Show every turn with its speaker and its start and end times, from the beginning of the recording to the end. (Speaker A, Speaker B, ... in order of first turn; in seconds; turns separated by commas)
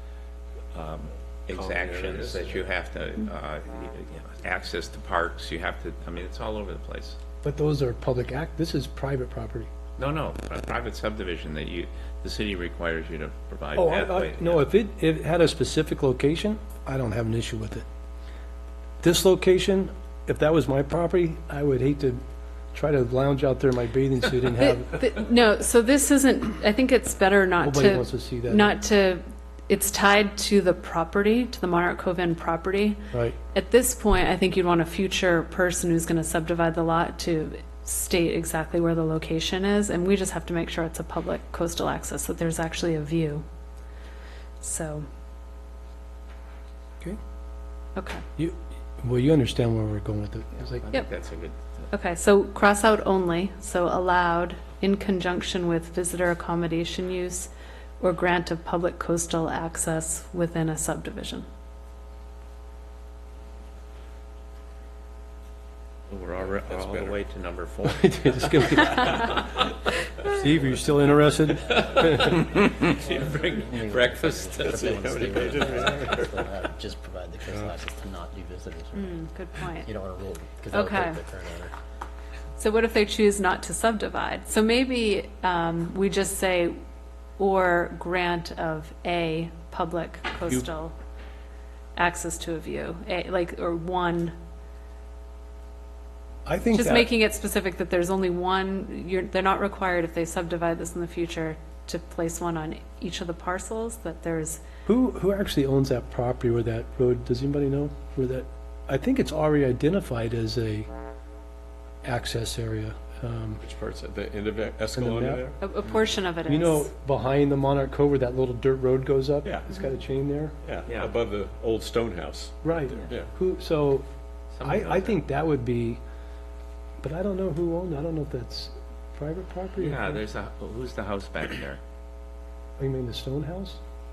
Speaker A: 0.7-7.2, Speaker B: 1.5-2.7, Speaker C: 7.4-9.7, Speaker A: 10.0-14.6, Speaker C: 13.7-17.9, Speaker C: 19.0-22.2, Speaker C: 22.7-25.0, Speaker D: 24.6-33.0, Speaker C: 27.6-28.7, Speaker D: 33.5-43.4, Speaker D: 44.6-45.0, Speaker D: 48.0-48.2, Speaker C: 48.4-50.8, Speaker A: 50.7-51.8, Speaker D: 51.9-61.5, Speaker A: 66.1-69.7, Speaker B: 66.4-67.2, Speaker C: 67.8-69.4, Speaker E: 70.4-79.2, Speaker C: 70.4-72.4, Speaker A: 71.5-75.8, Speaker B: 74.5-76.5, Speaker D: 78.9-79.9, Speaker E: 79.8-81.7, Speaker D: 80.7-81.2, Speaker D: 82.6-86.8, Speaker D: 87.4-90.9, Speaker D: 92.0-94.3, Speaker C: 96.5-97.1, Speaker D: 96.7-104.6, Speaker C: 104.8-110.9, Speaker C: 112.0-113.6, Speaker B: 113.6-115.6, Speaker C: 114.9-115.5, Speaker D: 115.6-116.9, Speaker C: 116.5-120.5, Speaker D: 119.7-119.9, Speaker B: 120.6-123.3, Speaker A: 120.9-121.1, Speaker C: 122.6-124.0, Speaker A: 124.5-125.2, Speaker C: 124.6-126.0, Speaker C: 127.0-130.2, Speaker A: 129.8-131.8, Speaker C: 132.8-133.8